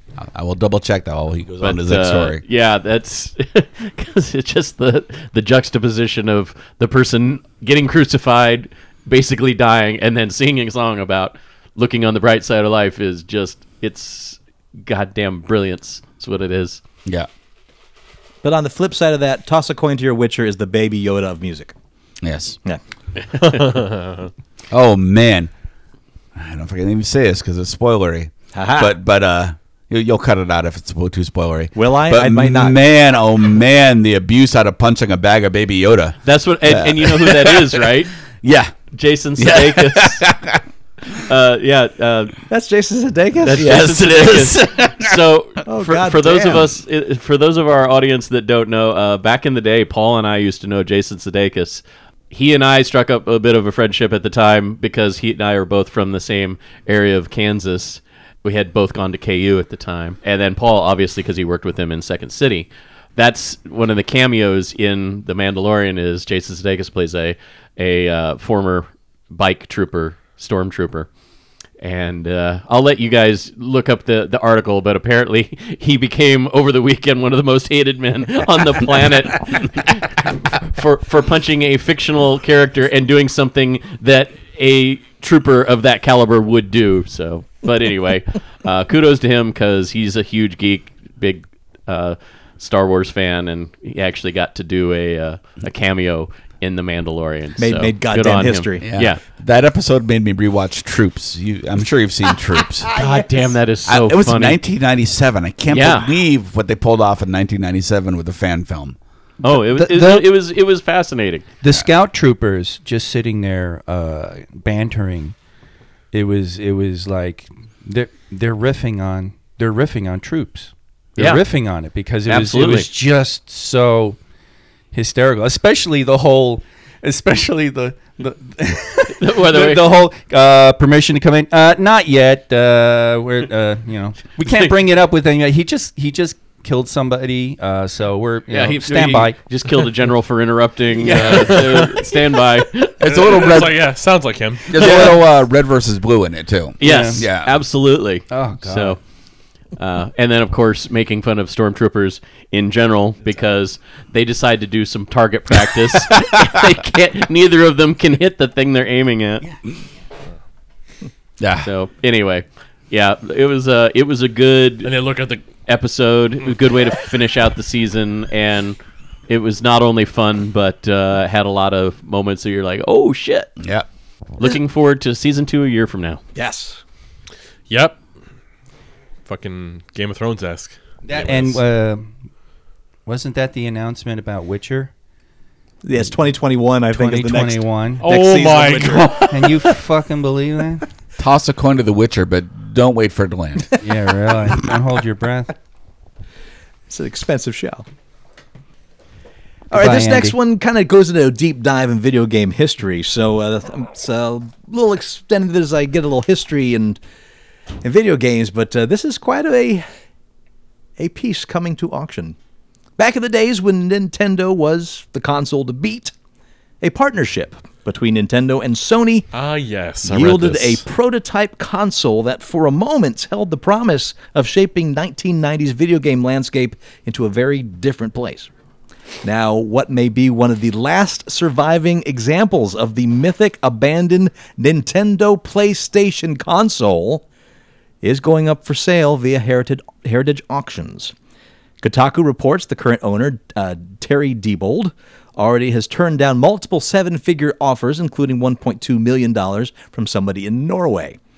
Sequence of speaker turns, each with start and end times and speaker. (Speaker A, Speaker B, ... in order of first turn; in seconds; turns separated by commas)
Speaker A: 0.2-2.4, Speaker B: 1.6-16.8, Speaker C: 18.4-21.7, Speaker A: 22.2-22.6, Speaker C: 23.3-23.9, Speaker A: 24.7-25.5, Speaker A: 26.4-37.9, Speaker C: 28.5-28.9, Speaker C: 31.8-32.8, Speaker B: 36.2-38.1, Speaker A: 38.4-38.7, Speaker B: 38.9-40.3, Speaker A: 39.4-40.6, Speaker B: 41.1-42.4, Speaker C: 42.5-43.8, Speaker B: 43.4-71.1, Speaker A: 43.5-45.3, Speaker C: 45.7-46.7, Speaker B: 71.8-99.2, Speaker C: 97.6-98.9, Speaker A: 98.8-102.9, Speaker C: 102.9-103.5, Speaker B: 103.0-104.6, Speaker A: 103.9-109.0, Speaker B: 105.7-106.2, Speaker B: 109.4-111.5, Speaker D: 109.5-110.2, Speaker D: 111.6-115.3, Speaker D: 116.1-124.2, Speaker B: 122.3-122.9, Speaker D: 124.9-139.4, Speaker B: 129.2-129.9, Speaker B: 138.5-143.6, Speaker D: 141.0-141.9, Speaker E: 141.1-142.1, Speaker A: 143.0-143.9, Speaker E: 143.0-145.0, Speaker A: 144.7-147.5, Speaker B: 144.8-145.2, Speaker B: 146.8-149.0, Speaker D: 146.8-147.2, Speaker D: 148.3-149.0, Speaker B: 149.8-159.5, Speaker A: 161.4-161.7, Speaker B: 161.6-164.9, Speaker E: 164.8-165.5, Speaker B: 165.7-168.8, Speaker B: 169.3-173.5, Speaker A: 173.6-173.9, Speaker B: 174.4-176.2, Speaker C: 176.3-176.8, Speaker E: 177.7-178.0, Speaker E: 179.2-181.6, Speaker D: 181.1-182.1, Speaker D: 183.1-184.9, Speaker C: 185.8-189.3, Speaker D: 186.9-188.0, Speaker E: 188.0-189.6, Speaker D: 189.3-190.8, Speaker A: 191.2-193.7, Speaker D: 193.8-195.5, Speaker C: 196.9-197.9, Speaker C: 199.7-207.0, Speaker D: 199.7-200.4, Speaker C: 207.8-209.9, Speaker C: 211.0-212.4, Speaker C: 213.0-216.1, Speaker C: 216.8-219.3, Speaker E: 219.3-220.8, Speaker C: 220.0-228.5, Speaker C: 229.2-237.2, Speaker C: 238.0-241.1, Speaker C: 241.8-251.2